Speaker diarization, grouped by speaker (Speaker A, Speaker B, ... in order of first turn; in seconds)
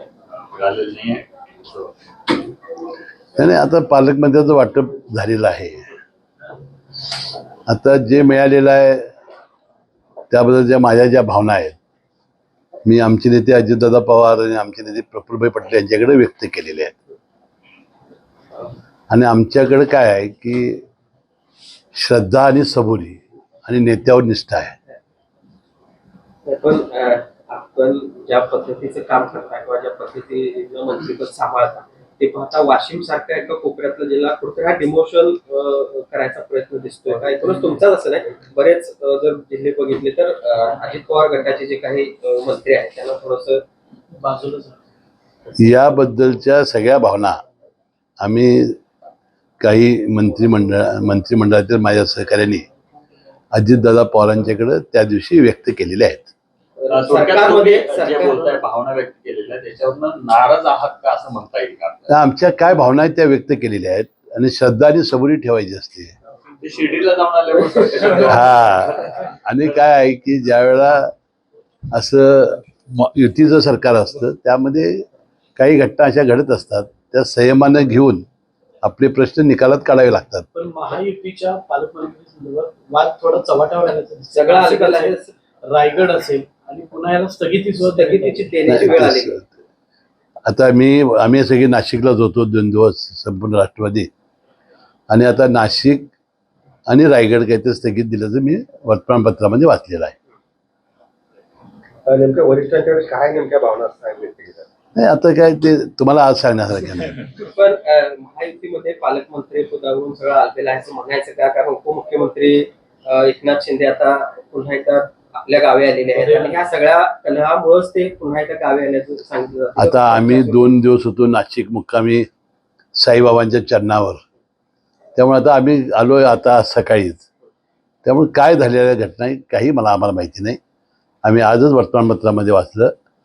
Speaker A: 0.4-1.9, 56.9-62.1, 66.6-69.3
Speaker B: 3.4-5.9, 7.7-9.1, 10.3-11.8, 12.8-17.0, 19.1-20.8, 21.9-24.8, 45.6-47.4, 48.2-48.8, 49.6-52.7, 53.5-56.3, 62.1-66.1, 68.3-71.1, 71.9-75.0, 75.6-78.2, 78.8-80.5, 88.7-89.5, 90.5-94.1, 95.1-96.1, 96.9-100.2, 105.0-107.2, 119.8-122.3, 123.0-124.2, 125.2-127.3, 128.1-130.6, 131.2-132.9
Speaker C: 26.5-43.6, 56.8-58.5, 84.3-85.2, 87.8-89.3, 107.6-120.7
Speaker D: 37.0-37.5, 38.2-38.6, 40.8-41.7, 103.5-104.4, 116.2-116.5
Speaker E: 44.1-44.8, 80.5-88.6, 116.2-116.6